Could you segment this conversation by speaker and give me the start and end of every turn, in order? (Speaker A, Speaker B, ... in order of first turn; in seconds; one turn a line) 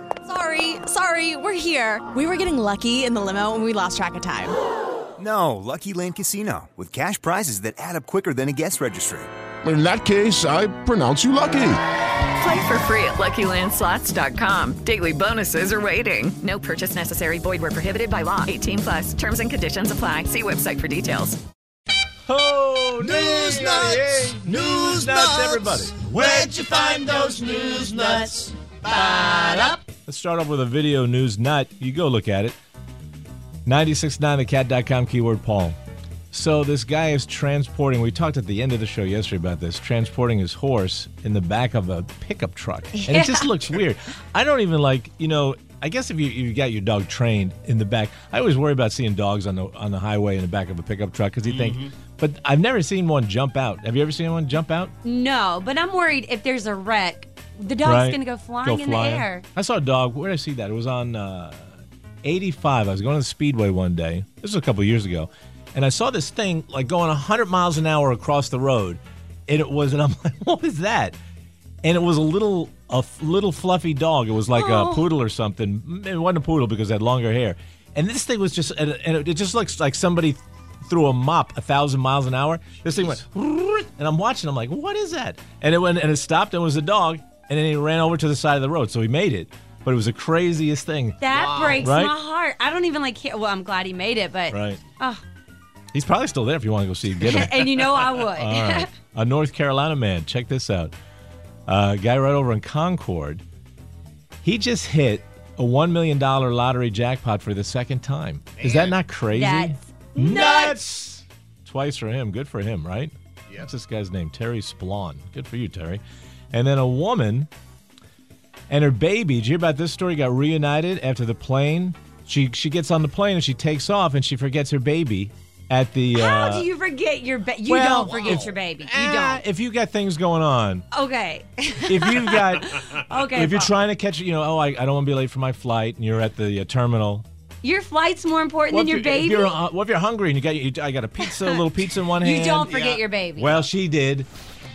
Speaker A: 0.2-4.5
Speaker B: 5.2-9.3
Speaker C: 9.6-11.8
Speaker D: 12.4-21.4
Speaker E: 22.3-25.9
Speaker F: 23.0-29.8
Speaker E: 29.9-32.5
Speaker E: 33.6-35.8
Speaker E: 36.3-54.9
Speaker G: 43.0-43.5
Speaker G: 55.0-59.4
Speaker E: 57.8-61.7
Speaker E: 62.2-71.2
Speaker E: 71.8-91.2
Speaker G: 74.5-75.1
Speaker G: 91.2-95.2
Speaker E: 91.8-92.1
Speaker E: 94.5-94.8
Speaker E: 95.9-100.9
Speaker G: 97.2-98.9
Speaker E: 101.7-103.4
Speaker E: 104.4-116.0
Speaker G: 109.3-110.8
Speaker E: 116.5-117.5
Speaker E: 118.7-126.7
Speaker G: 126.1-129.4
Speaker E: 127.7-130.9
Speaker G: 130.9-133.7
Speaker E: 131.8-137.2
Speaker G: 137.6-139.6
Speaker E: 138.7-142.7
Speaker G: 142.2-143.7
Speaker E: 143.4-144.3